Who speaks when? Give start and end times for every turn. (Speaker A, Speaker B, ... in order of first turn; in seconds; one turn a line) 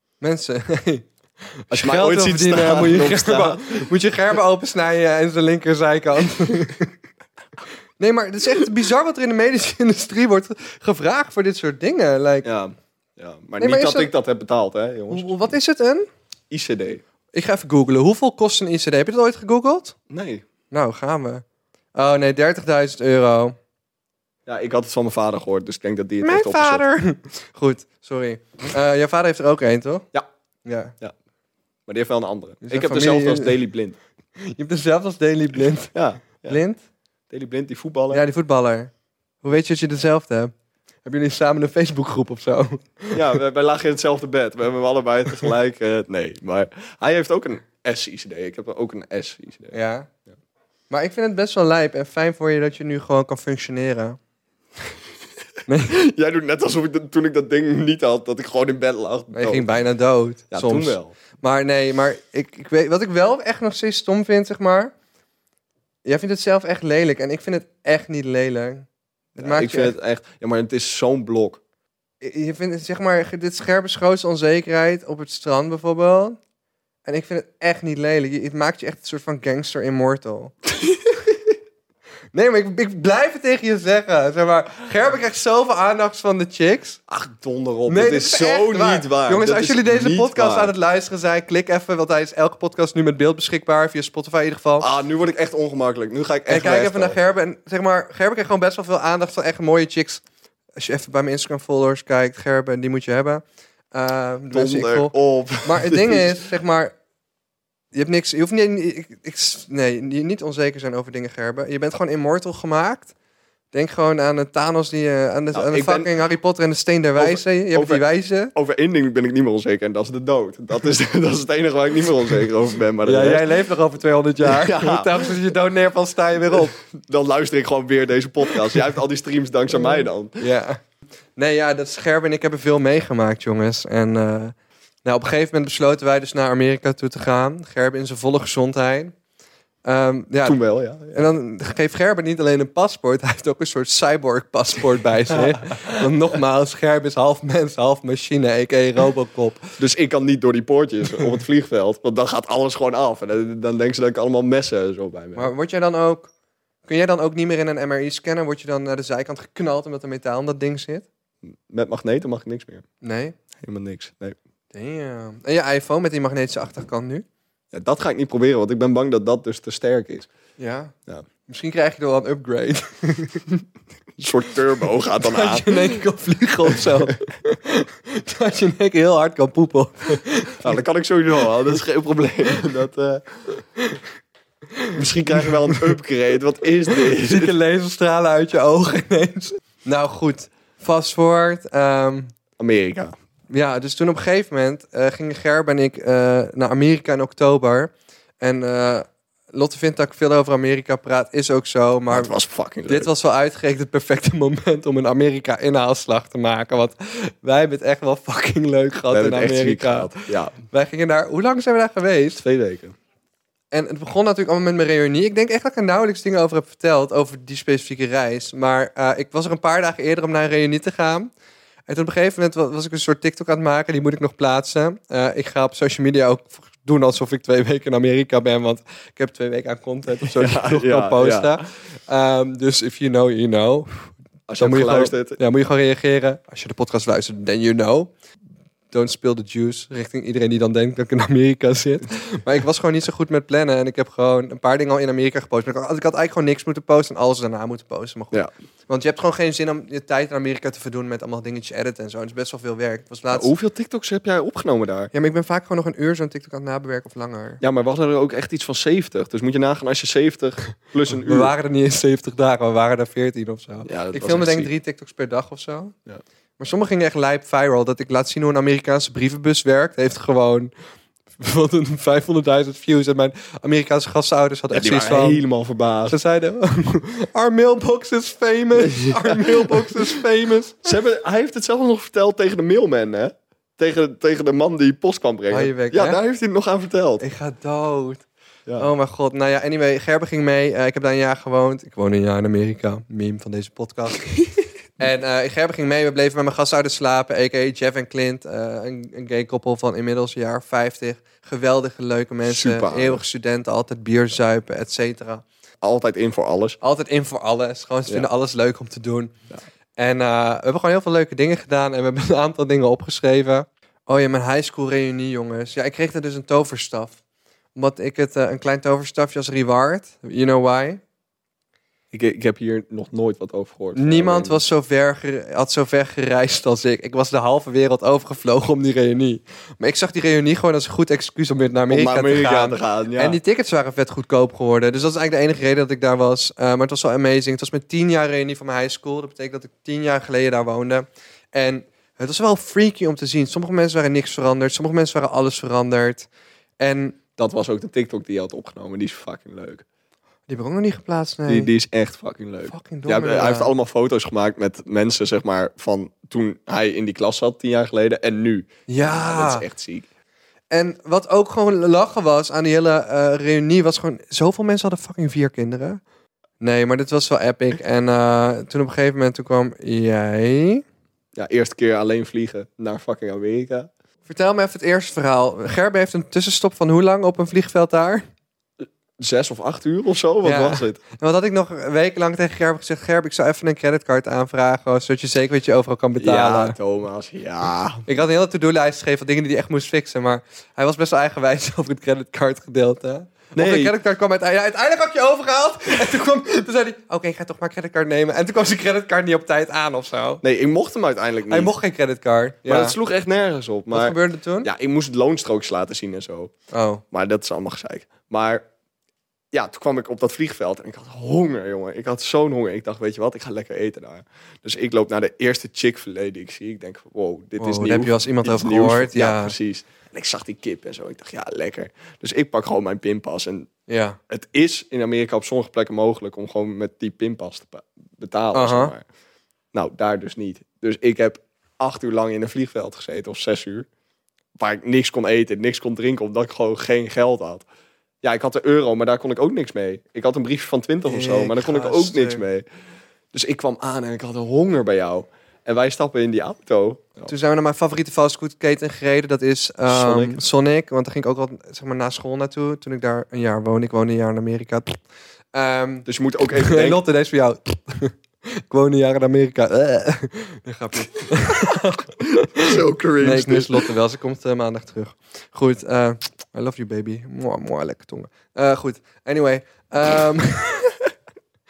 Speaker A: 0.2-1.1
Speaker A: 1.6-6.9
Speaker B: 1.7-3.9
Speaker A: 8.0-12.5
Speaker B: 12.4-15.3
Speaker A: 13.6-14.1
Speaker A: 15.1-16.1
Speaker B: 16.5-17.0
Speaker A: 17.3-19.9
Speaker B: 20.1-20.4
Speaker A: 20.7-21.4
Speaker A: 21.9-23.6
Speaker B: 24.4-26.8
Speaker A: 26.2-30.1
Speaker A: 30.6-30.9
Speaker B: 31.9-34.0
Speaker A: 32.6-33.6
Speaker A: 34.4-36.8
Speaker B: 35.9-36.6
Speaker B: 37.3-38.2
Speaker A: 38.1-38.9
Speaker A: 39.4-40.5
Speaker A: 41.0-43.3
Speaker B: 43.1-49.7
Speaker A: 49.7-50.1
Speaker A: 50.9-54.2
Speaker A: 55.7-55.9
Speaker B: 55.9-59.8
Speaker A: 59.3-64.9
Speaker B: 60.5-61.1
Speaker A: 66.0-69.9
Speaker B: 69.4-71.6
Speaker A: 72.2-76.4
Speaker A: 77.0-80.5
Speaker A: 82.3-87.0
Speaker B: 87.1-90.7
Speaker A: 87.9-94.9
Speaker B: 94.8-97.2
Speaker A: 96.5-100.2
Speaker A: 100.8-106.9
Speaker B: 104.5-106.4
Speaker A: 107.9-113.1
Speaker A: 113.7-118.5
Speaker B: 115.5-116.1
Speaker B: 117.2-123.6
Speaker A: 123.0-126.7
Speaker B: 124.4-125.3
Speaker B: 126.5-130.4
Speaker A: 129.7-130.8
Speaker A: 131.3-139.1
Speaker A: 139.8-140.6
Speaker B: 140.4-141.2
Speaker A: 141.1-149.6
Speaker B: 145.3-146.1
Speaker B: 149.8-155.5
Speaker A: 155.3-156.3
Speaker A: 156.8-161.1
Speaker B: 161.4-162.8
Speaker A: 163.0-163.3
Speaker B: 163.6-164.4
Speaker A: 164.7-167.2
Speaker B: 167.7-170.3
Speaker A: 170.6-170.9
Speaker A: 171.4-173.5
Speaker B: 174.2-176.0
Speaker A: 175.2-180.7
Speaker B: 180.6-183.2
Speaker A: 184.8-185.8
Speaker B: 184.9-187.5
Speaker A: 186.9-192.3
Speaker B: 192.6-193.1
Speaker A: 193.5-202.3
Speaker B: 202.1-203.1
Speaker A: 202.9-212.4
Speaker B: 209.1-210.6
Speaker B: 212.4-212.9
Speaker A: 213.7-221.3
Speaker A: 221.9-238.1
Speaker B: 230.2-231.6
Speaker B: 234.5-235.4
Speaker A: 238.9-253.5
Speaker B: 253.3-255.1
Speaker A: 255.1-257.6
Speaker B: 257.6-261.5
Speaker A: 261.1-265.9
Speaker B: 263.9-264.7
Speaker A: 266.6-270.7
Speaker A: 271.4-275.4
Speaker B: 274.7-276.2
Speaker A: 276.1-280.9
Speaker B: 278.8-280.2
Speaker B: 280.8-287.2
Speaker A: 285.5-286.2
Speaker A: 287.2-288.2
Speaker A: 288.8-294.3
Speaker A: 295.0-305.4
Speaker B: 302.4-303.2
Speaker B: 305.8-306.8
Speaker A: 306.8-309.3
Speaker A: 310.0-317.2
Speaker A: 317.7-321.0
Speaker B: 322.1-324.6
Speaker A: 323.9-346.3
Speaker B: 331.9-333.4
Speaker A: 346.8-347.2
Speaker B: 347.4-349.8
Speaker A: 350.5-351.7
Speaker B: 351.5-360.1
Speaker A: 352.7-353.7
Speaker A: 358.9-359.6
Speaker A: 360.7-366.0
Speaker A: 366.6-370.8
Speaker B: 371.4-373.9
Speaker A: 374.3-378.2
Speaker B: 379.2-381.0
Speaker A: 380.4-386.8
Speaker B: 386.2-388.0
Speaker A: 388.1-400.4
Speaker B: 393.5-393.9
Speaker B: 400.4-401.7
Speaker A: 401.5-403.0
Speaker B: 402.6-406.5
Speaker A: 403.9-404.7
Speaker A: 406.7-407.0
Speaker B: 407.1-408.6
Speaker B: 409.5-423.7
Speaker A: 417.6-419.5
Speaker A: 423.9-424.2
Speaker B: 424.3-429.0
Speaker A: 428.5-428.9
Speaker B: 429.7-433.9
Speaker B: 434.6-437.6
Speaker B: 438.2-442.6
Speaker A: 441.0-442.4
Speaker B: 443.3-447.3
Speaker A: 447.3-455.0
Speaker B: 449.9-450.4
Speaker A: 455.5-470.9
Speaker B: 456.1-457.0
Speaker B: 462.4-463.8